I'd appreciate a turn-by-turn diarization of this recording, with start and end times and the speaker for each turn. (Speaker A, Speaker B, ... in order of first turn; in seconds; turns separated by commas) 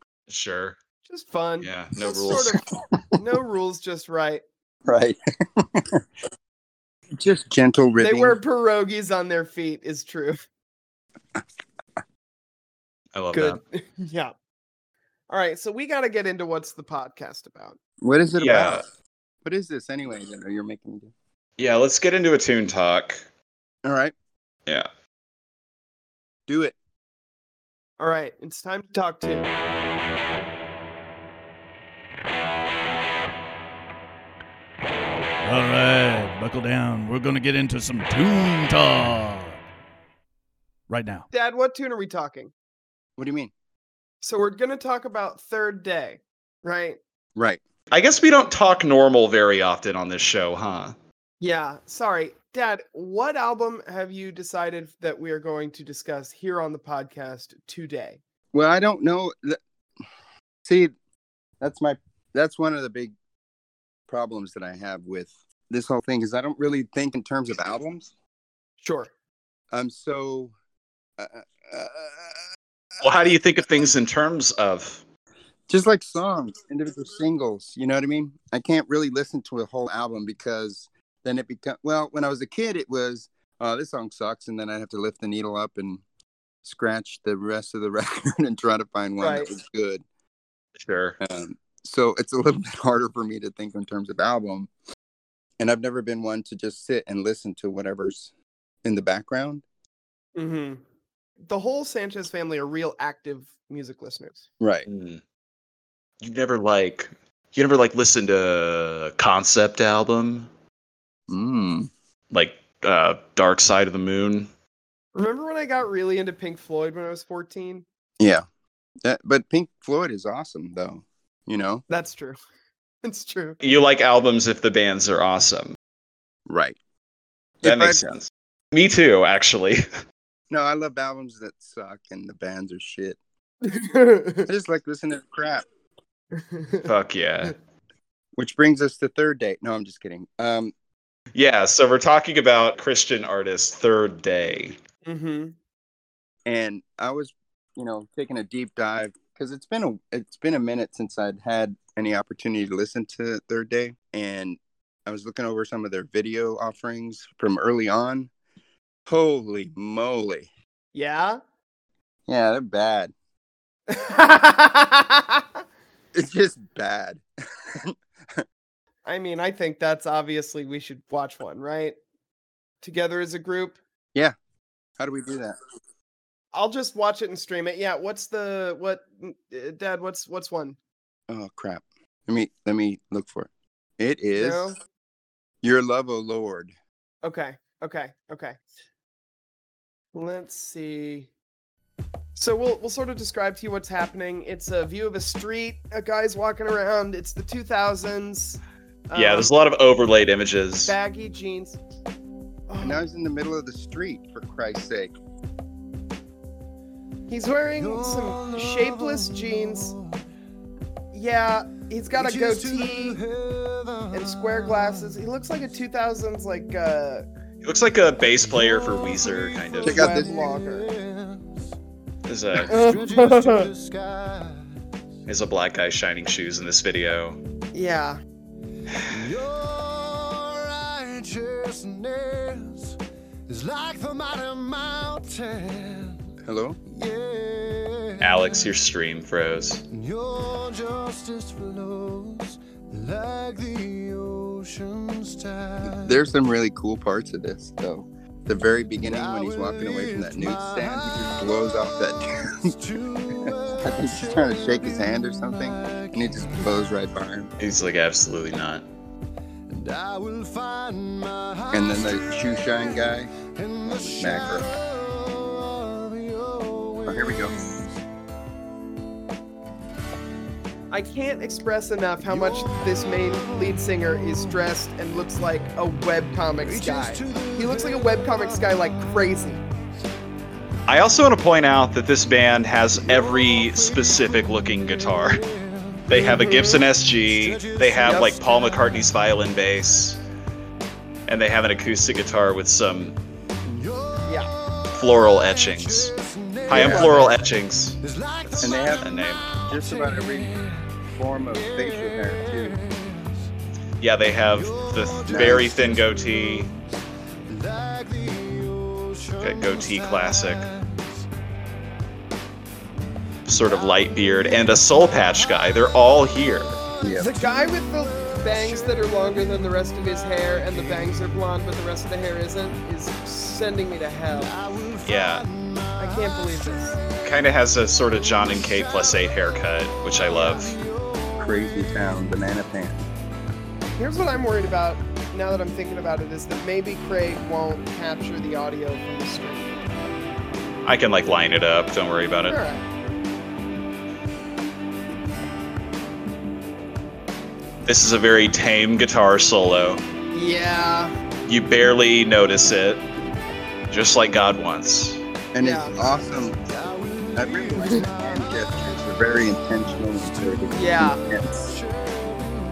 Speaker A: 0.3-0.8, Speaker B: 1.1-2.6, Speaker A: 1.6-2.5, Speaker B: 3.1-4.4, Speaker C: 4.8-6.0, Speaker C: 7.2-8.4, Speaker B: 8.0-10.4, Speaker A: 13.1-13.6, Speaker B: 13.3-14.3, Speaker B: 15.3-17.8, Speaker C: 18.0-18.8, Speaker A: 18.4-18.8, Speaker C: 19.4-21.1, Speaker A: 21.6-23.2, Speaker C: 23.8-24.1, Speaker C: 26.5-26.8, Speaker B: 28.0-29.5, Speaker D: 35.4-39.6, Speaker D: 40.9-41.2, Speaker B: 41.3-42.5, Speaker C: 43.2-43.5, Speaker B: 44.2-47.0, Speaker C: 47.4-47.6, Speaker A: 47.9-51.0, Speaker B: 51.4-58.2, Speaker C: 58.5-59.6, Speaker C: 60.6-60.9, Speaker C: 61.6-63.1, Speaker C: 64.1-68.1, Speaker B: 68.8-69.1, Speaker C: 69.7-70.5, Speaker C: 71.2-72.4, Speaker A: 73.0-75.0, Speaker C: 75.7-86.0, Speaker C: 86.6-90.0, Speaker B: 89.2-89.5, Speaker A: 90.8-91.2, Speaker C: 91.2-94.7, Speaker C: 95.6-98.3, Speaker C: 98.8-99.6, Speaker B: 100.3-100.8, Speaker B: 101.5-104.5, Speaker C: 104.6-104.9, Speaker A: 104.8-105.2, Speaker A: 106.2-110.5, Speaker C: 111.3-111.9, Speaker A: 112.3-114.5, Speaker B: 115.1-117.8, Speaker C: 118.2-118.4, Speaker C: 119.0-121.8, Speaker B: 121.9-122.4, Speaker B: 123.0-123.6, Speaker A: 123.6-125.8, Speaker C: 126.5-126.8, Speaker C: 127.6-128.1, Speaker A: 127.6-129.8, Speaker C: 130.5-133.2, Speaker B: 133.6-134.5, Speaker C: 134.4-135.7, Speaker B: 136.3-136.9, Speaker A: 136.8-137.5, Speaker C: 138.4-140.7, Speaker A: 141.3-144.8, Speaker B: 145.1-145.6, Speaker C: 146.4-158.3, Speaker C: 159.1-160.5, Speaker B: 160.9-161.4, Speaker C: 162.3-163.1, Speaker B: 163.9-165.5, Speaker C: 166.1-168.4, Speaker B: 169.0-172.0, Speaker B: 172.8-173.8, Speaker C: 175.0-175.6, Speaker B: 176.5-180.8, Speaker C: 181.3-184.7, Speaker B: 184.3-184.8, Speaker C: 185.6-186.7, Speaker B: 187.2-188.6, Speaker B: 190.1-191.3, Speaker B: 192.3-199.5, Speaker A: 199.1-200.9, Speaker B: 200.8-201.8, Speaker B: 202.7-203.0, Speaker C: 202.8-205.1, Speaker B: 207.3-210.0, Speaker B: 211.1-213.2, Speaker B: 214.1-217.2, Speaker A: 217.6-220.1, Speaker B: 219.8-220.9, Speaker C: 219.8-220.4, Speaker A: 222.2-222.9, Speaker B: 222.7-223.7, Speaker D: 223.1-223.9, Speaker A: 225.2-227.4, Speaker B: 227.7-228.2, Speaker D: 229.7-230.3, Speaker D: 230.9-232.7, Speaker D: 233.6-236.1, Speaker E: 234.7-235.4, Speaker C: 236.4-236.8, Speaker A: 238.2-239.8, Speaker D: 241.3-242.4, Speaker E: 241.4-241.7, Speaker D: 243.1-244.5, Speaker E: 243.3-244.1, Speaker C: 245.8-252.8, Speaker C: 253.4-257.5, Speaker A: 257.6-258.8, Speaker E: 259.9-261.2, Speaker C: 261.7-264.7, Speaker C: 267.0-267.6, Speaker B: 270.9-279.6, Speaker A: 280.9-285.4, Speaker A: 286.1-290.2, Speaker B: 286.1-286.8, Speaker B: 288.0-288.4, Speaker A: 291.3-293.2, Speaker B: 294.2-294.5, Speaker A: 294.9-299.5, Speaker C: 296.7-297.2, Speaker B: 296.7-297.2, Speaker C: 298.6-300.6, Speaker C: 301.1-302.8, Speaker A: 304.0-306.7, Speaker C: 305.3-305.7, Speaker A: 309.4-310.7, Speaker A: 313.4-316.8, Speaker C: 317.0-317.3, Speaker B: 317.3-324.6, Speaker A: 325.0-325.5, Speaker B: 326.0-327.0, Speaker A: 327.2-330.8, Speaker C: 331.4-333.0, Speaker B: 333.9-339.9, Speaker A: 340.9-342.6, Speaker B: 342.5-342.8, Speaker A: 347.8-350.0, Speaker B: 350.3-351.1, Speaker A: 351.4-353.0, Speaker A: 353.9-355.2, Speaker C: 355.5-356.6, Speaker B: 355.6-355.9, Speaker C: 357.3-361.7, Speaker B: 357.8-358.1, Speaker B: 360.7-361.2